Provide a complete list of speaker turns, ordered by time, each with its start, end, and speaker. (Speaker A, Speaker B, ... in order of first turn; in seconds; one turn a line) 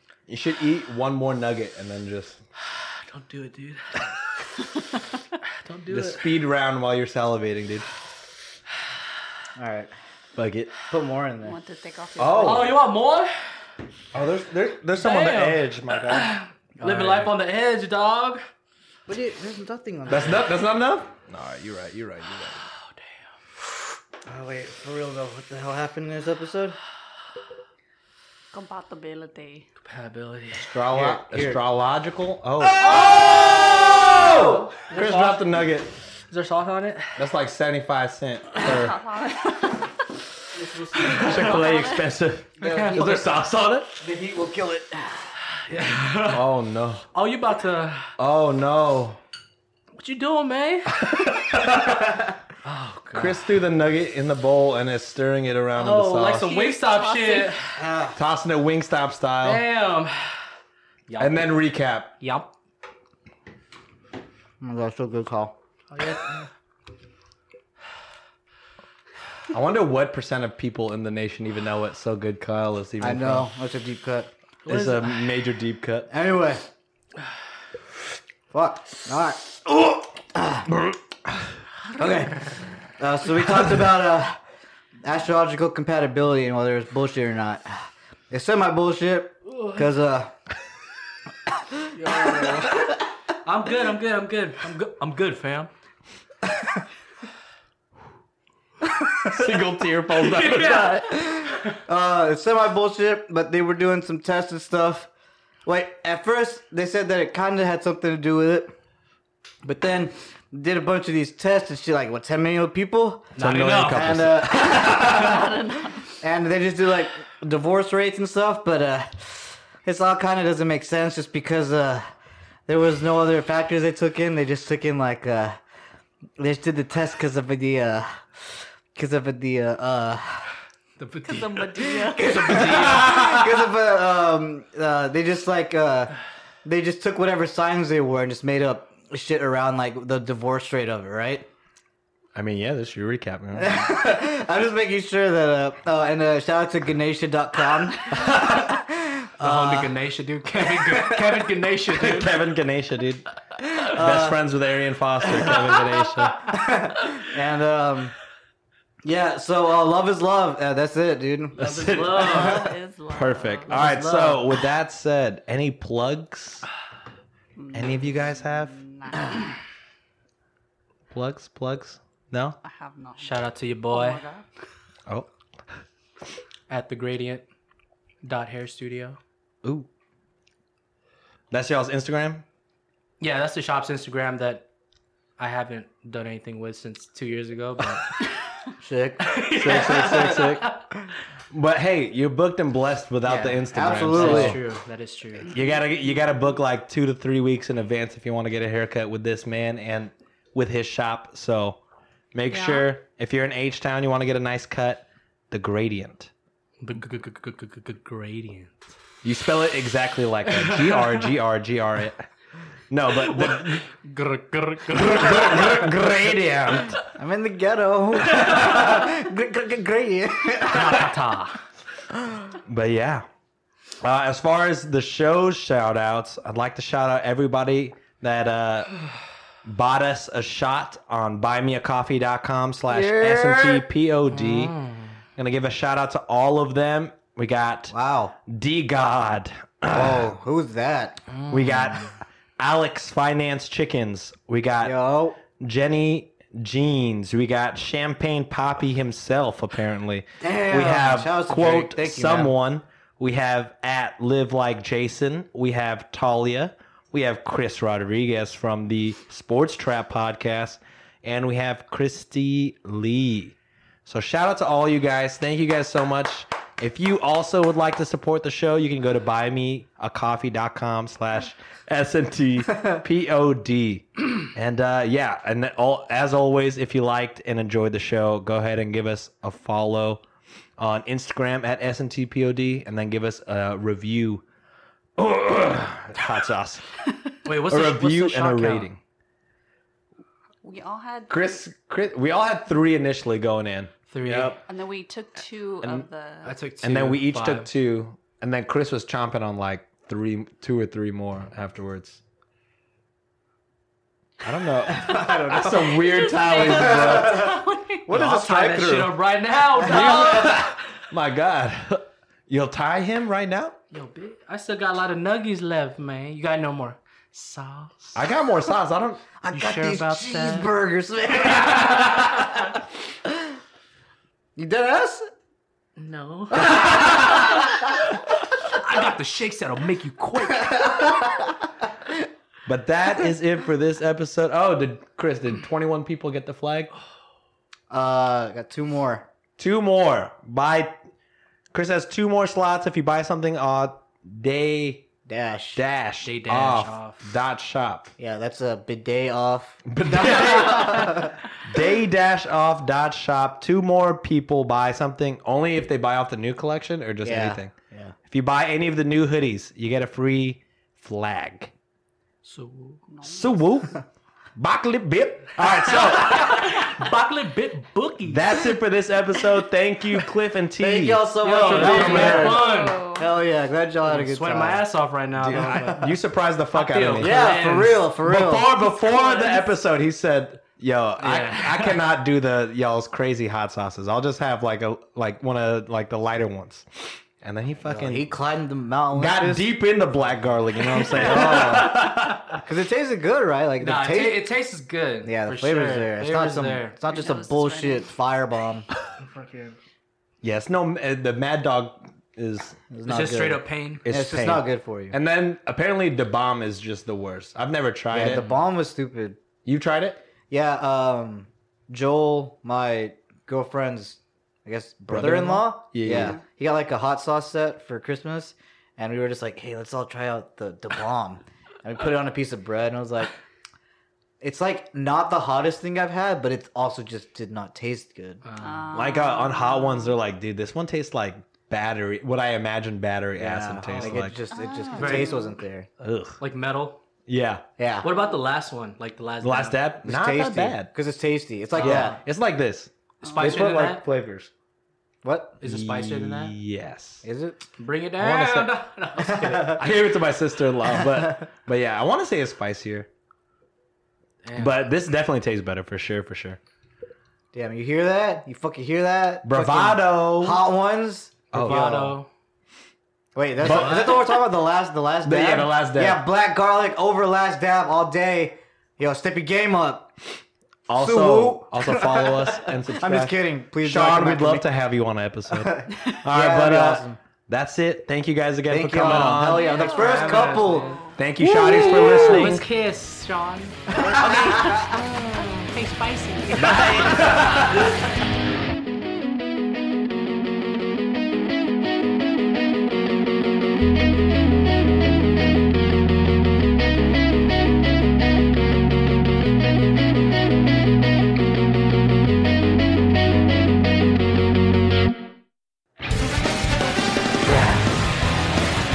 Speaker A: 0.3-2.4
Speaker B: 2.6-4.0
Speaker B: 5.6-6.4
Speaker A: 5.9-7.9
Speaker C: 9.6-9.9
Speaker A: 10.4-10.8
Speaker C: 10.9-11.6
Speaker D: 11.4-12.7
Speaker A: 12.2-12.8
Speaker B: 12.4-13.3
Speaker A: 14.1-16.3
Speaker B: 14.9-18.4
Speaker A: 16.8-17.3
Speaker C: 19.1-20.5
Speaker A: 20.1-22.6
Speaker B: 22.8-23.1
Speaker C: 24.3-26.8
Speaker D: 28.5-29.7
Speaker B: 29.8-30.7
Speaker A: 30.6-35.9
Speaker C: 30.9-31.6
Speaker D: 32.8-34.7
Speaker B: 32.9-35.7
Speaker B: 36.3-37.3
Speaker A: 37.2-39.0
Speaker D: 38.5-39.9
Speaker C: 40.5-41.5
Speaker A: 41.0-44.0
Speaker B: 41.2-41.5
Speaker D: 41.4-42.1
Speaker C: 42.6-43.4
Speaker B: 42.6-43.2
Speaker C: 44.0-45.3
Speaker B: 45.7-46.5
Speaker A: 46.3-47.0
Speaker B: 47.1-48.1
Speaker A: 48.2-49.2
Speaker B: 50.0-51.0
Speaker A: 50.9-52.2
Speaker B: 52.6-53.5
Speaker A: 53.1-56.5
Speaker B: 55.8-57.8
Speaker D: 56.4-57.5
Speaker C: 57.8-58.2
Speaker A: 58.1-59.6
Speaker B: 59.4-60.4
Speaker B: 61.1-61.6
Speaker A: 61.2-62.1
Speaker B: 62.2-62.5
Speaker C: 64.6-65.6
Speaker B: 65.9-66.5
Speaker A: 69.5-73.5
Speaker C: 73.0-74.3
Speaker B: 74.7-75.4
Speaker A: 74.7-76.1
Speaker C: 76.1-76.7
Speaker C: 78.5-80.8
Speaker A: 80.7-81.0
Speaker C: 82.0-84.4
Speaker C: 85.0-90.3
Speaker B: 89.5-89.8
Speaker B: 91.9-95.7
Speaker C: 92.0-92.7
Speaker C: 96.5-96.8
Speaker A: 99.2-101.3
Speaker B: 100.1-101.8
Speaker C: 101.9-105.1
Speaker C: 105.7-108.7
Speaker C: 109.6-115.5
Speaker B: 113.3-114.3
Speaker A: 113.4-115.5
Speaker D: 115.0-116.1
Speaker C: 116.2-122.1
Speaker C: 122.7-125.6
Speaker C: 126.4-130.5
Speaker B: 131.0-133.3
Speaker D: 131.2-132.6
Speaker C: 132.2-141.5
Speaker A: 132.9-133.4
Speaker A: 142.3-143.9
Speaker C: 143.5-149.9
Speaker A: 148.2-148.6
Speaker B: 149.4-152.5
Speaker C: 150.6-151.5
Speaker A: 151.9-153.3
Speaker C: 153.8-154.4
Speaker A: 153.8-156.5
Speaker B: 155.4-156.3
Speaker C: 156.5-158.2
Speaker C: 159.0-161.6
Speaker B: 161.6-162.7
Speaker A: 161.6-166.7
Speaker C: 162.1-162.7
Speaker D: 162.3-163.8
Speaker B: 163.7-164.5
Speaker D: 167.6-169.6
Speaker A: 167.7-168.8
Speaker A: 171.1-172.6
Speaker D: 172.6-174.5
Speaker B: 173.2-174.2
Speaker B: 176.7-177.4
Speaker B: 178.2-179.2
Speaker A: 179.6-179.9
Speaker A: 181.5-182.4
Speaker B: 183.2-184.7
Speaker B: 185.4-188.2
Speaker C: 188.8-189.4
Speaker B: 189.2-190.8
Speaker A: 189.6-190.7
Speaker A: 191.5-194.6
Speaker B: 193.2-195.6
Speaker C: 193.7-194.6
Speaker A: 195.4-201.8
Speaker A: 202.3-206.3
Speaker D: 202.5-202.9
Speaker B: 206.8-208.9
Speaker A: 209.2-212.3
Speaker B: 210.5-211.3
Speaker A: 212.9-213.8
Speaker B: 213.1-216.1
Speaker A: 214.9-217.0
Speaker C: 217.1-221.1
Speaker B: 218.2-218.9
Speaker B: 220.6-221.6
Speaker A: 222.7-223.3
Speaker A: 224.0-229.0
Speaker A: 229.6-234.8
Speaker C: 232.9-233.9
Speaker B: 234.3-235.2
Speaker A: 235.4-237.9
Speaker C: 237.9-238.3
Speaker A: 238.5-240.3
Speaker C: 239.9-241.2
Speaker B: 241.3-242.1
Speaker A: 241.5-245.0
Speaker C: 244.8-245.4
Speaker A: 245.5-280.2
Speaker C: 250.4-252.6
Speaker A: 280.8-284.4
Speaker A: 285.2-286.8
Speaker B: 287.4-288.9
Speaker A: 287.7-289.0
Speaker D: 290.6-291.6
Speaker A: 291.3-294.6
Speaker B: 294.1-294.6
Speaker D: 294.7-296.6
Speaker A: 295.8-296.1
Speaker B: 296.4-297.7
Speaker A: 296.8-302.2
Speaker A: 304.4-307.6
Speaker C: 304.9-309.2
Speaker D: 305.1-308.1
Speaker A: 308.1-308.6
Speaker B: 308.1-310.6
Speaker C: 309.7-310.6
Speaker A: 309.8-313.8
Speaker B: 313.9-318.2
Speaker A: 318.1-319.3
Speaker C: 319.4-322.6
Speaker B: 319.5-320.7
Speaker C: 324.6-325.3
Speaker B: 326.0-327.9
Speaker C: 326.6-327.7
Speaker A: 326.6-327.5
Speaker B: 328.6-331.1
Speaker C: 330.5-331.5
Speaker A: 332.7-336.9
Speaker C: 337.9-339.3
Speaker A: 339.6-340.9
Speaker A: 341.7-345.1
Speaker C: 345.3-345.8
Speaker A: 345.8-348.1
Speaker B: 346.2-347.2
Speaker C: 348.2-351.4
Speaker A: 349.9-357.7
Speaker C: 357.2-358.1
Speaker A: 358.3-361.7
Speaker B: 362.4-363.0
Speaker D: 363.1-363.7
Speaker A: 363.2-364.0
Speaker A: 364.6-367.0
Speaker B: 365.6-368.6
Speaker A: 368.2-372.6
Speaker C: 370.8-376.1
Speaker B: 371.4-373.0
Speaker D: 372.4-373.3
Speaker B: 374.0-376.1
Speaker A: 375.4-386.9
Speaker B: 376.7-378.1
Speaker C: 377.2-378.7
Speaker D: 379.0-379.7
Speaker B: 381.2-382.0
Speaker A: 387.4-388.3
Speaker C: 387.8-389.7
Speaker A: 389.1-392.6
Speaker C: 391.0-394.4
Speaker B: 393.8-397.0
Speaker C: 395.2-398.9
Speaker D: 397.1-398.1
Speaker B: 399.2-399.8
Speaker A: 400.4-402.8
Speaker C: 402.9-405.2
Speaker B: 403.1-404.1
Speaker A: 404.0-408.4
Speaker C: 408.1-409.4
Speaker B: 408.2-408.5
Speaker A: 409.6-410.2
Speaker C: 410.5-423.4
Speaker A: 415.1-416.4
Speaker C: 424.4-428.4
Speaker B: 428.4-428.9
Speaker D: 428.6-430.2
Speaker A: 428.9-434.4
Speaker C: 433.4-435.9
Speaker D: 434.5-435.6
Speaker B: 434.9-435.4
Speaker A: 436.0-436.4
Speaker B: 436.4-437.0
Speaker A: 437.3-437.7
Speaker C: 437.8-438.1
Speaker B: 438.0-439.9
Speaker A: 439.4-440.9
Speaker C: 440.0-442.2
Speaker B: 441.8-442.2
Speaker A: 441.8-444.5
Speaker D: 443.2-443.6
Speaker B: 443.2-444.1
Speaker C: 445.2-445.6
Speaker B: 445.6-446.6
Speaker A: 445.6-447.2
Speaker C: 447.2-447.6
Speaker B: 447.8-449.8
Speaker A: 448.2-448.8
Speaker C: 449.3-449.8
Speaker A: 449.5-453.1
Speaker C: 450.9-451.4
Speaker B: 454.4-454.9
Speaker A: 454.6-456.6
Speaker C: 457.5-462.2
Speaker A: 459.4-460.6
Speaker A: 461.5-461.9
Speaker B: 461.5-462.3
Speaker C: 463.4-470.1
Speaker B: 463.6-464.3
Speaker A: 463.6-464.4
Speaker A: 465.2-466.2
Speaker A: 470.9-479.8
Speaker C: 470.9-474.7
Speaker C: 475.5-477.2
Speaker C: 478.7-481.0
Speaker B: 479.0-487.8
Speaker D: 479.5-481.2
Speaker A: 481.2-482.7
Speaker C: 481.6-482.6
Speaker C: 483.9-485.0
Speaker A: 486.6-487.9
Speaker A: 507.5-507.8